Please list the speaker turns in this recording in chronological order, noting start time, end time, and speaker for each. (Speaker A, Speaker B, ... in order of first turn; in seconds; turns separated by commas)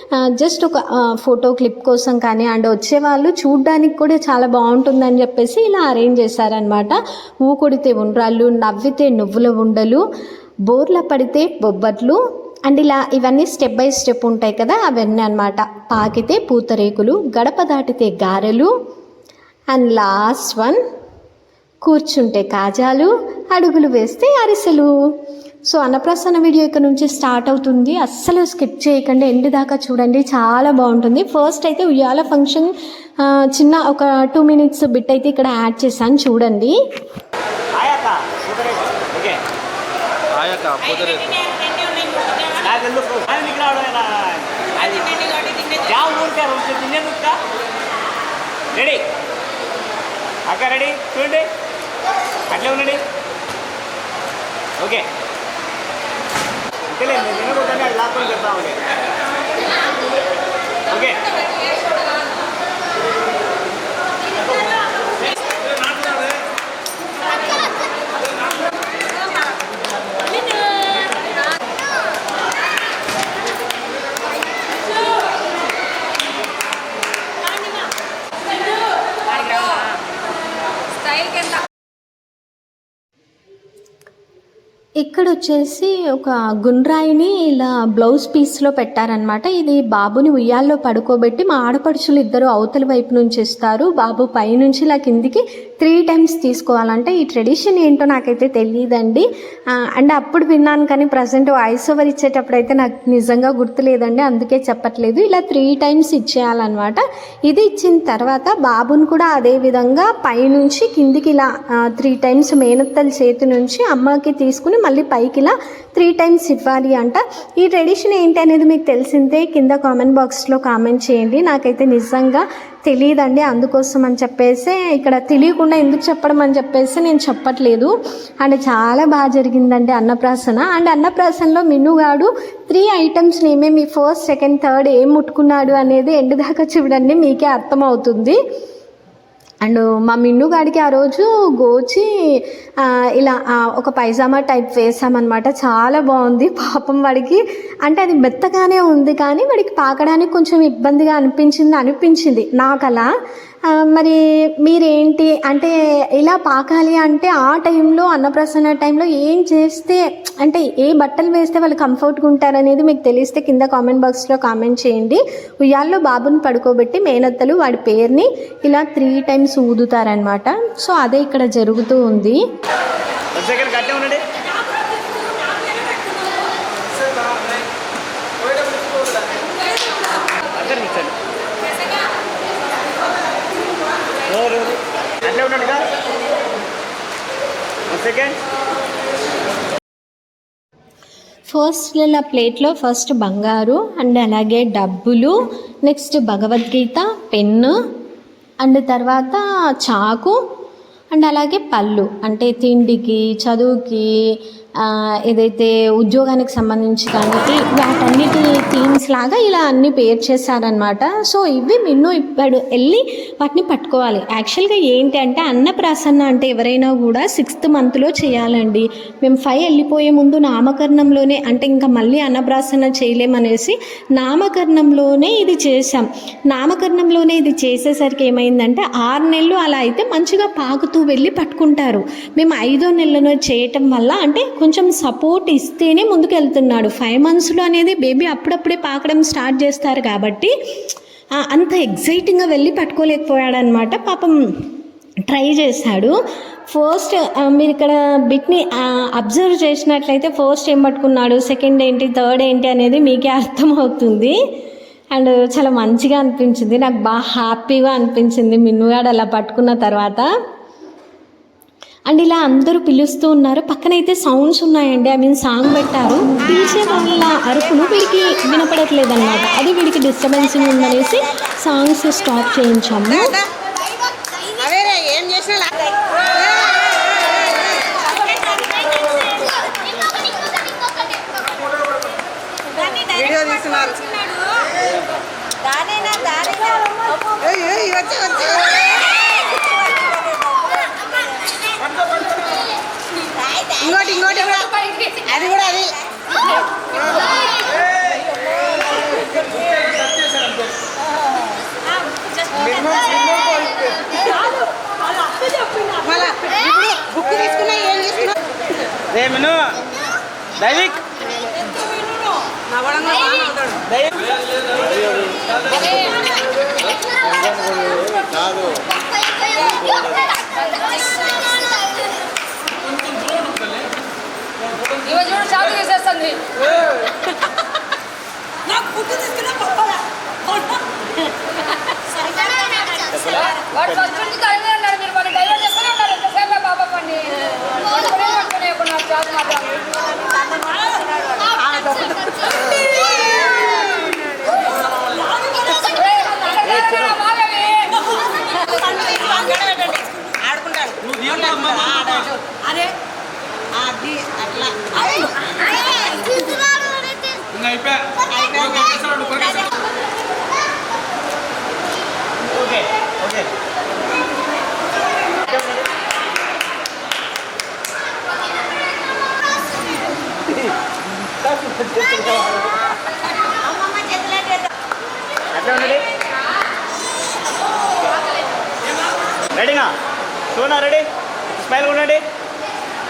Speaker A: 0.2-10.0, Speaker A: 10.7-18.7, Speaker A: 19.7-20.8, Speaker A: 21.8-24.9, Speaker A: 25.7-36.7, Speaker B: 37.7-39.4, Speaker C: 40.5-41.3, Speaker B: 42.5-45.0, Speaker B: 45.7-47.4, Speaker B: 48.7-49.0, Speaker B: 50.5-51.5, Speaker B: 52.5-53.0, Speaker B: 54.8-55.1, Speaker B: 56.9-58.8, Speaker B: 60.9-61.3, Speaker A: 85.0-99.2, Speaker A: 99.9-138.4, Speaker A: 139.6-142.4, Speaker A: 143.2-153.1, Speaker A: 153.8-172.4, Speaker B: 173.3-174.2, Speaker B: 180.5-181.2, Speaker B: 184.2-185.9, Speaker B: 187.9-188.4, Speaker A: 191.5-197.7, Speaker A: 198.6-200.4, Speaker A: 201.1-204.1, Speaker A: 204.8-240.5, Speaker A: 241.4-244.6, Speaker A: 245.3-246.2, Speaker A: 246.7-254.3, Speaker A: 255.1-260.2, Speaker A: 262.1-273.4, Speaker C: 274.5-275.7, Speaker C: 278.4-279.4, Speaker C: 280.2-280.7, Speaker C: 282.8-284.2, Speaker C: 285.7-288.8, Speaker C: 289.8-290.6, Speaker C: 293.4-294.3, Speaker D: 294.3-295.4, Speaker C: 295.4-296.0, Speaker C: 306.0-308.3, Speaker B: 309.1-309.8, Speaker B: 310.6-311.0, Speaker D: 315.8-316.1, Speaker D: 325.0-326.6, Speaker D: 328.9-329.5, Speaker B: 333.1-334.3, Speaker D: 334.3-339.8, Speaker D: 345.8-346.5, Speaker B: 346.6-347.4, Speaker D: 347.4-347.8, Speaker D: 348.5-349.4, Speaker C: 349.5-352.4, Speaker C: 353.8-355.2, Speaker C: 358.1-359.7, Speaker B: 362.5-363.5, Speaker B: 365.4-365.9, Speaker B: 375.5-376.0, Speaker B: 379.5-379.9, Speaker B: 380.5-382.2